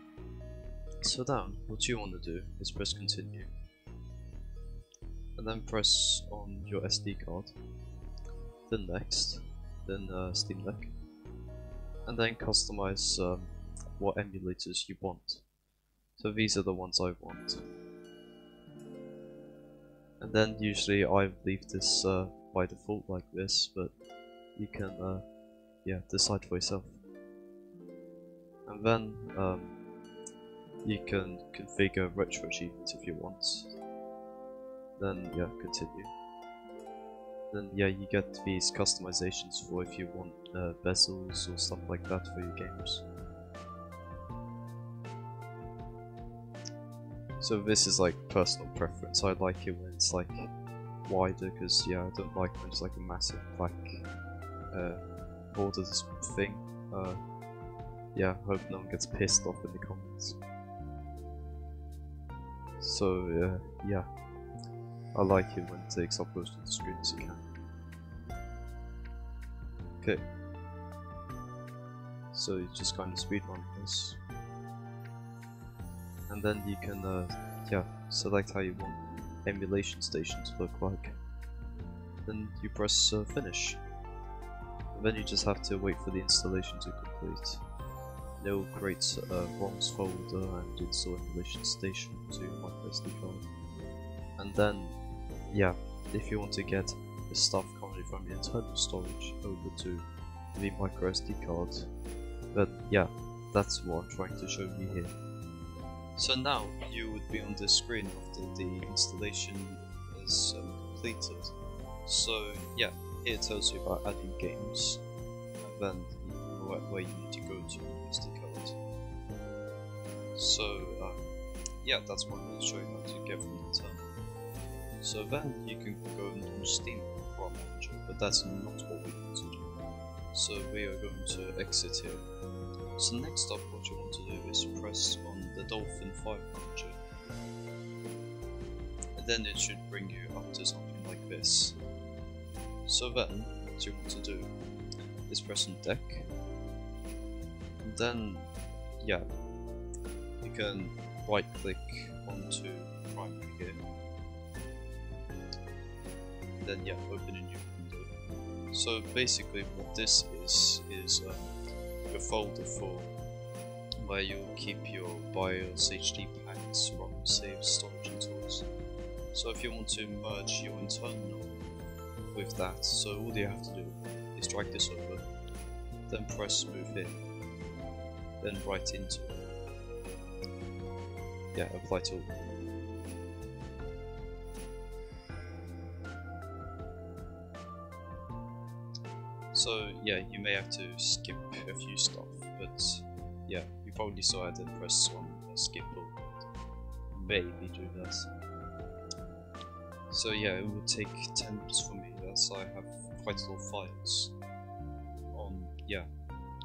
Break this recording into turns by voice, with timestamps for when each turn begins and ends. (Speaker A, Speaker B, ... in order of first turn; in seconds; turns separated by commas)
Speaker A: 1.0-3.5, Speaker A: 5.3-7.6, Speaker A: 8.7-10.9, Speaker A: 12.0-15.5, Speaker A: 16.2-17.7, Speaker A: 20.2-24.0, Speaker A: 24.5-25.3, Speaker A: 25.8-27.0, Speaker A: 28.7-29.8, Speaker A: 30.8-33.8, Speaker A: 35.0-36.1, Speaker A: 37.5-43.1, Speaker A: 47.4-50.5, Speaker A: 51.1-54.1, Speaker A: 54.7-57.2, Speaker A: 58.1-60.4, Speaker A: 62.8-64.1, Speaker A: 65.1-67.5, Speaker A: 70.0-70.3, Speaker A: 72.3-74.2, Speaker A: 76.3-81.2, Speaker A: 82.2-83.8, Speaker A: 84.9-87.6, Speaker A: 88.4-93.5, Speaker A: 94.4-95.0, Speaker A: 95.5-101.9, Speaker A: 102.5-105.2, Speaker A: 106.2-111.5, Speaker A: 112.1-115.0, Speaker A: 115.6-118.8, Speaker A: 120.3-121.2, Speaker A: 121.8-124.1, Speaker A: 125.0-129.7, Speaker A: 130.3-132.2, Speaker A: 132.9-137.0, Speaker A: 139.1-141.8, Speaker A: 142.9-144.5, Speaker A: 145.3-146.3, Speaker A: 147.8-148.5, Speaker A: 149.0-149.3, Speaker A: 150.4-153.8, Speaker A: 156.6-158.1, Speaker A: 158.7-161.5, Speaker A: 162.1-163.1, Speaker A: 164.0-168.7, Speaker A: 169.3-171.6, Speaker A: 172.3-175.2, Speaker A: 176.1-177.2, Speaker A: 178.4-179.5, Speaker A: 181.5-182.3, Speaker A: 189.5-196.4, Speaker A: 197.1-198.3, Speaker A: 200.1-204.3, Speaker A: 205.3-206.1